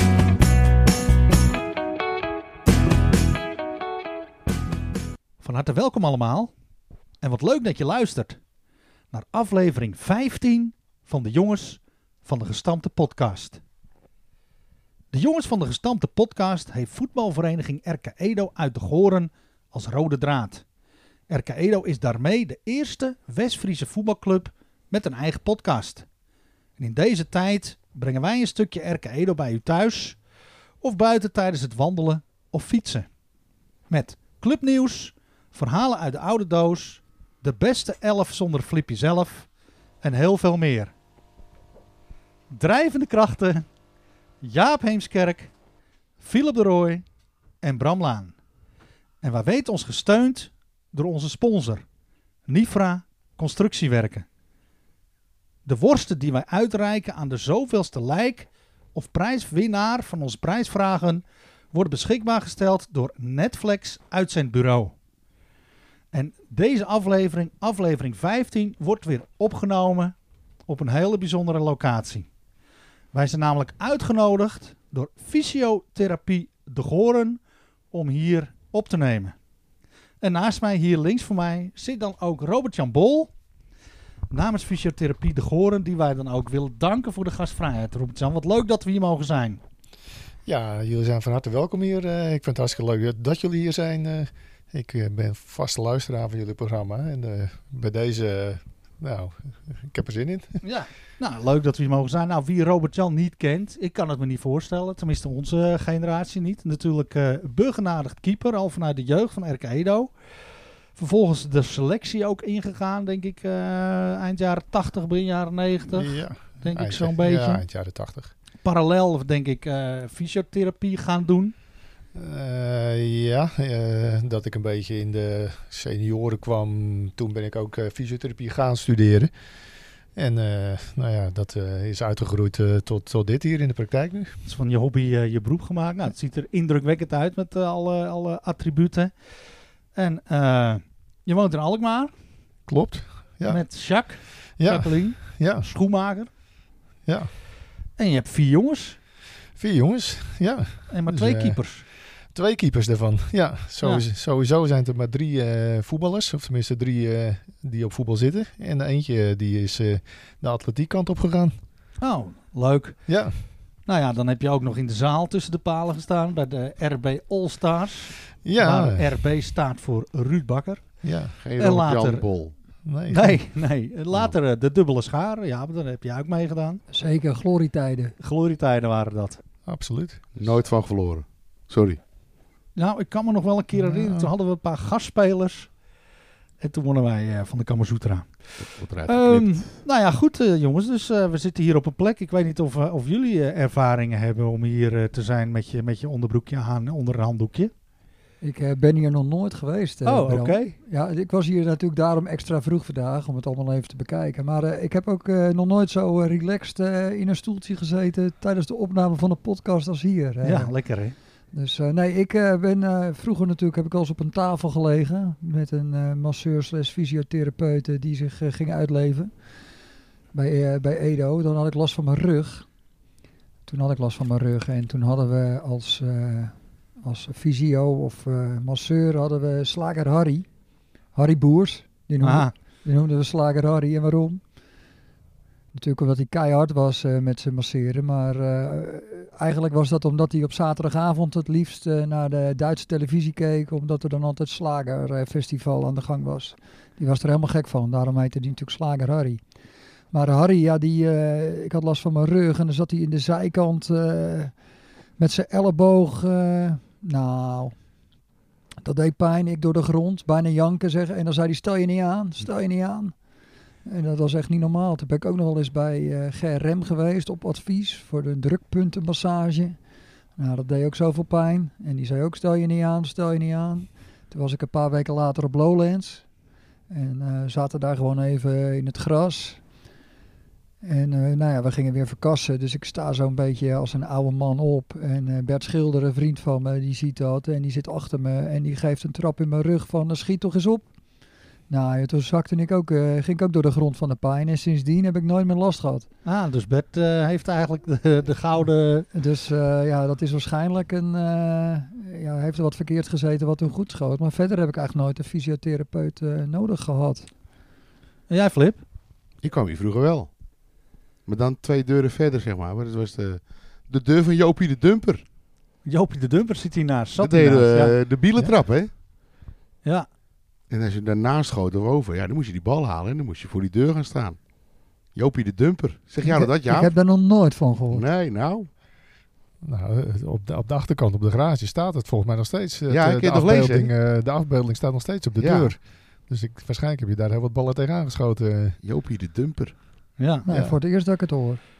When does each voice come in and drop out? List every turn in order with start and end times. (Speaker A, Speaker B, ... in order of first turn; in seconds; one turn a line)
Speaker A: 5.4-6.5
Speaker A: 7.2-8.4
Speaker A: 9.1-13.6
Speaker A: 15.1-20.6
Speaker A: 21.3-26.1
Speaker A: 26.8-30.2
Speaker A: 30.8-33.1
Speaker A: 33.9-39.5
Speaker A: 40.0-40.9
Speaker A: 42.5-43.7
Speaker A: 44.4-45.5
Speaker A: 46.2-47.0
Speaker A: 47.6-48.3
Speaker A: 49.2-51.8
Speaker A: 52.5-54.2
Speaker A: 55.6-64.9
Speaker A: 66.1-70.1
Speaker A: 70.7-72.3
Speaker A: 73.1-77.4
Speaker A: 77.9-79.3
Speaker A: 80.2-83.3
Speaker A: 84.3-89.6
Speaker B: 90.4-100.6
Speaker A: 100.6-110.1
Speaker A: 110.9-117.6
Speaker B: 115.9-118.3
Speaker A: 118.6-121.5
Speaker B: 122.1-129.3
Speaker B: 130.2-134.3
Speaker A: 134.4-139.1
Speaker A: 139.9-142.1
Speaker B: 142.7-143.7
Speaker A: 143.5-146.3
Speaker B: 144.6-145.7
Speaker A: 148.0-149.0
Speaker B: 149.6-151.6
Speaker A: 150.9-151.8
Speaker B: 152.3-161.5
Speaker A: 153.8-154.1
Speaker A: 162.0-163.1
Speaker B: 163.1-163.3
Speaker A: 163.8-172.2
Speaker B: 168.4-169.1
Speaker B: 171.0-171.3
Speaker C: 171.4-172.5
Speaker B: 172.8-173.4
Speaker A: 173.1-176.8
Speaker D: 176.9-178.1
Speaker A: 178.2-179.4
Speaker B: 179.7-180.2
Speaker C: 180.3-182.0
Speaker A: 182.8-185.7
Speaker B: 183.7-184.3
Speaker A: 186.6-188.3
Speaker C: 188.6-189.8
Speaker A: 189.1-197.7
Speaker D: 198.4-210.7
Speaker A: 200.0-200.8
Speaker A: 210.4-211.2
Speaker D: 211.5-219.3
Speaker D: 220.3-222.7
Speaker D: 223.7-230.5
Speaker D: 231.1-234.4
Speaker A: 232.2-232.5
Speaker D: 235.7-249.4
Speaker D: 250.1-254.5
Speaker D: 255.2-257.7
Speaker D: 258.8-263.1
Speaker D: 263.9-269.8
Speaker D: 270.4-276.2
Speaker D: 276.9-279.6
Speaker D: 280.8-290.8
Speaker D: 291.7-296.1
Speaker A: 296.2-299.1
Speaker D: 299.1-307.3
Speaker A: 308.3-308.8
Speaker C: 309.4-310.3
Speaker C: 311.2-315.2
Speaker A: 315.9-317.9
Speaker C: 317.2-318.9
Speaker C: 320.7-324.4
Speaker C: 325.1-326.9
Speaker D: 326.2-328.0
Speaker C: 327.9-328.7
Speaker B: 329.6-338.8
Speaker C: 332.9-333.9
Speaker C: 335.4-335.7
Speaker C: 338.8-339.8
Speaker A: 340.2-340.5
Speaker D: 340.4-341.6
Speaker B: 340.5-340.8